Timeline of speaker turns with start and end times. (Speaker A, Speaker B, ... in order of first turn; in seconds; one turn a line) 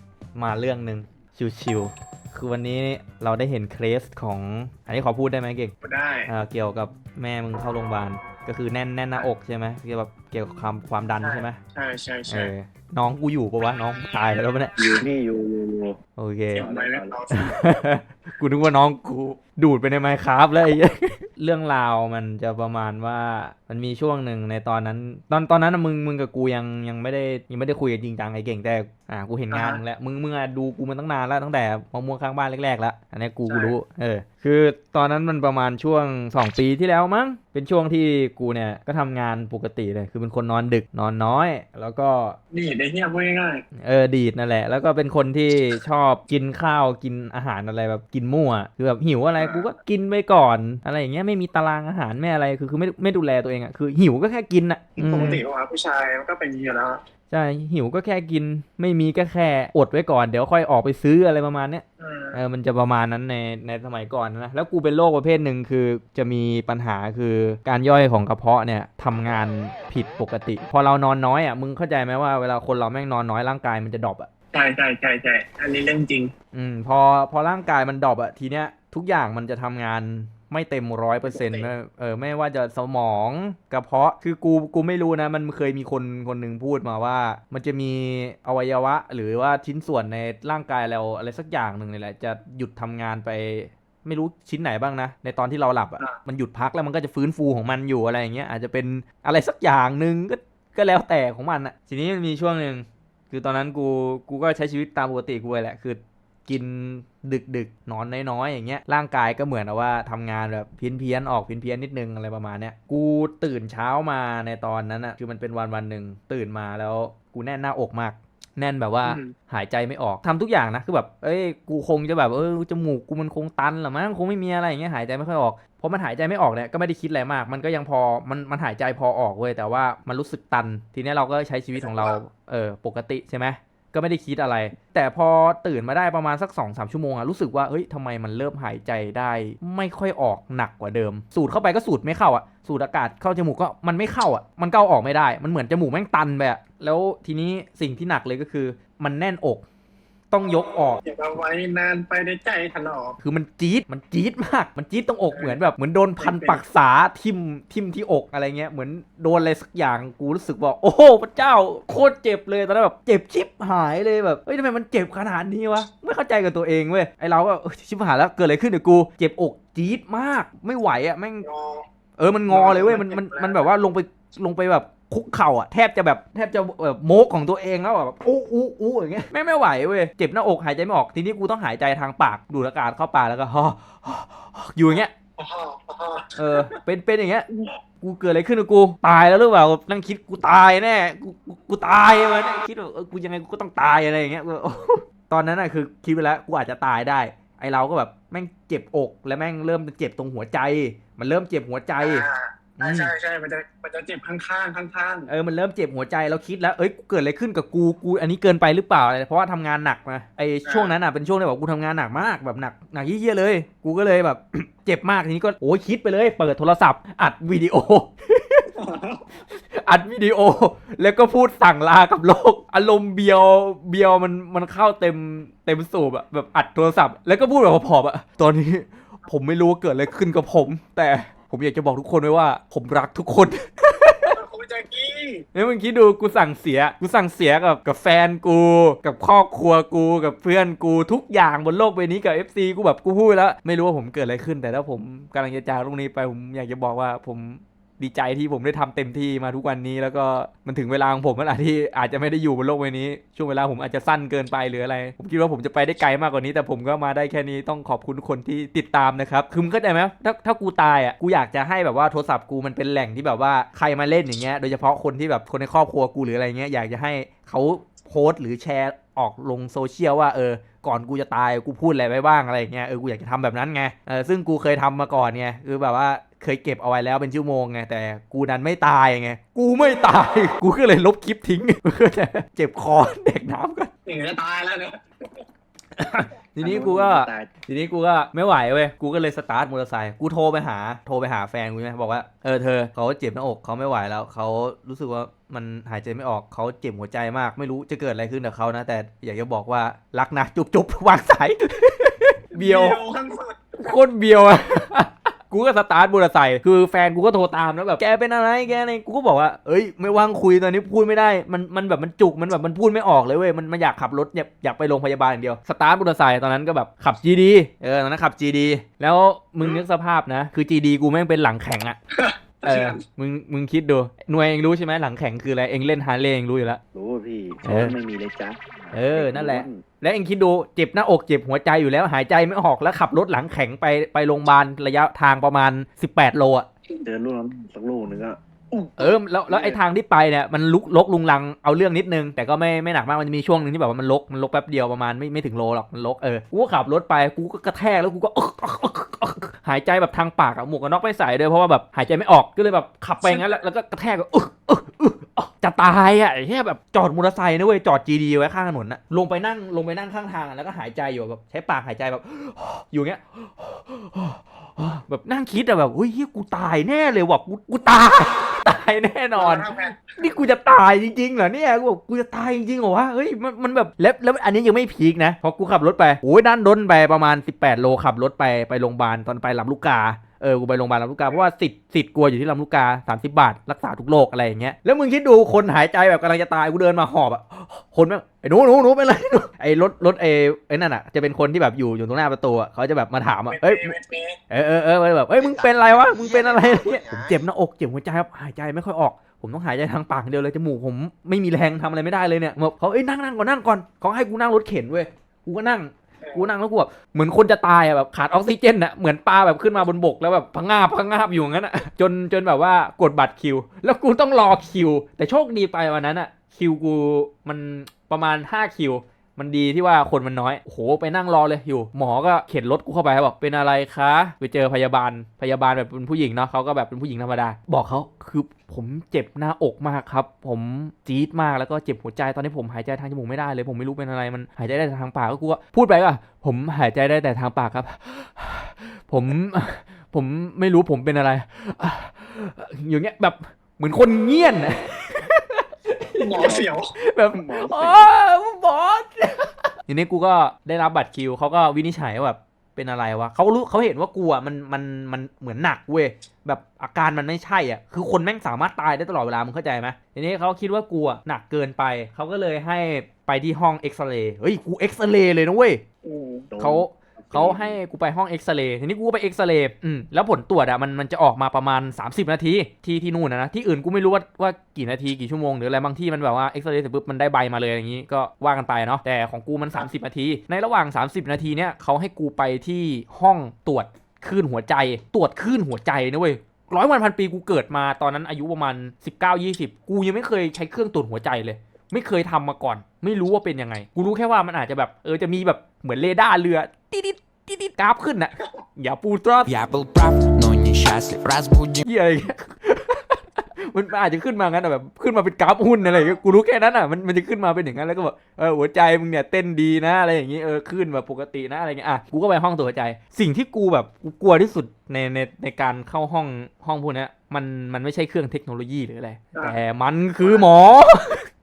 Speaker A: 0.3-5.7
Speaker B: 5.8-6.3
Speaker A: 6.3-11.6
Speaker B: 11.2-12.5
Speaker A: 12.3-15.0
Speaker C: 15.0-16.0
Speaker A: 16.2-16.6
Speaker B: 16.5-17.6
Speaker C: 16.6-17.2
Speaker A: 17.3-42.4
Speaker B: 29.5-29.8
Speaker B: 33.5-33.8
Speaker B: 42.5-43.6
Speaker A: 43.8-55.4
Speaker B: 49.4-49.7
Speaker B: 55.0-57.0
Speaker A: 57.3-74.3
Speaker B: 62.0-62.4
Speaker B: 74.5-76.3
Speaker A: 76.5-149.7
Speaker B: 81.3-81.7
Speaker B: 119.0-119.3
Speaker B: 131.8-132.2
Speaker A: 150.3-151.0
Speaker B: 150.5-153.2
Speaker A: 153.2-171.5
Speaker B: 155.3-155.6
Speaker B: 156.2-156.6
Speaker B: 171.4-171.8
Speaker A: 172.2-185.1
Speaker B: 172.5-173.7
Speaker B: 185.4-186.8
Speaker A: 186.4-187.5
Speaker A: 188.0-202.3
Speaker B: 202.0-205.3
Speaker A: 202.8-203.1
Speaker A: 205.3-218.7
Speaker B: 210.7-210.9
Speaker B: 218.7-219.2
Speaker A: 219.5-234.3
Speaker B: 234.3-235.4
Speaker A: 235.5-283.9
Speaker B: 284.1-285.4
Speaker A: 285.9-303.0
Speaker C: 286.6-287.5
Speaker B: 302.5-303.8
Speaker A: 303.8-322.0
Speaker B: 322.2-323.0
Speaker A: 322.6-326.8
Speaker C: 326.9-329.8
Speaker A: 327.6-328.0
Speaker A: 328.9-336.7
Speaker C: 337.0-339.8
Speaker A: 339.0-393.9
Speaker B: 353.2-353.6
Speaker B: 369.4-370.3
Speaker B: 393.5-394.4
Speaker A: 394.5-465.8
Speaker C: 395.4-397.4
Speaker B: 446.2-446.9
Speaker C: 446.4-446.7
Speaker C: 447.3-448.1
Speaker B: 466.0-466.5
Speaker C: 466.5-467.8
Speaker A: 466.6-499.6
Speaker D: 499.5-501.8
Speaker A: 501.8-521.3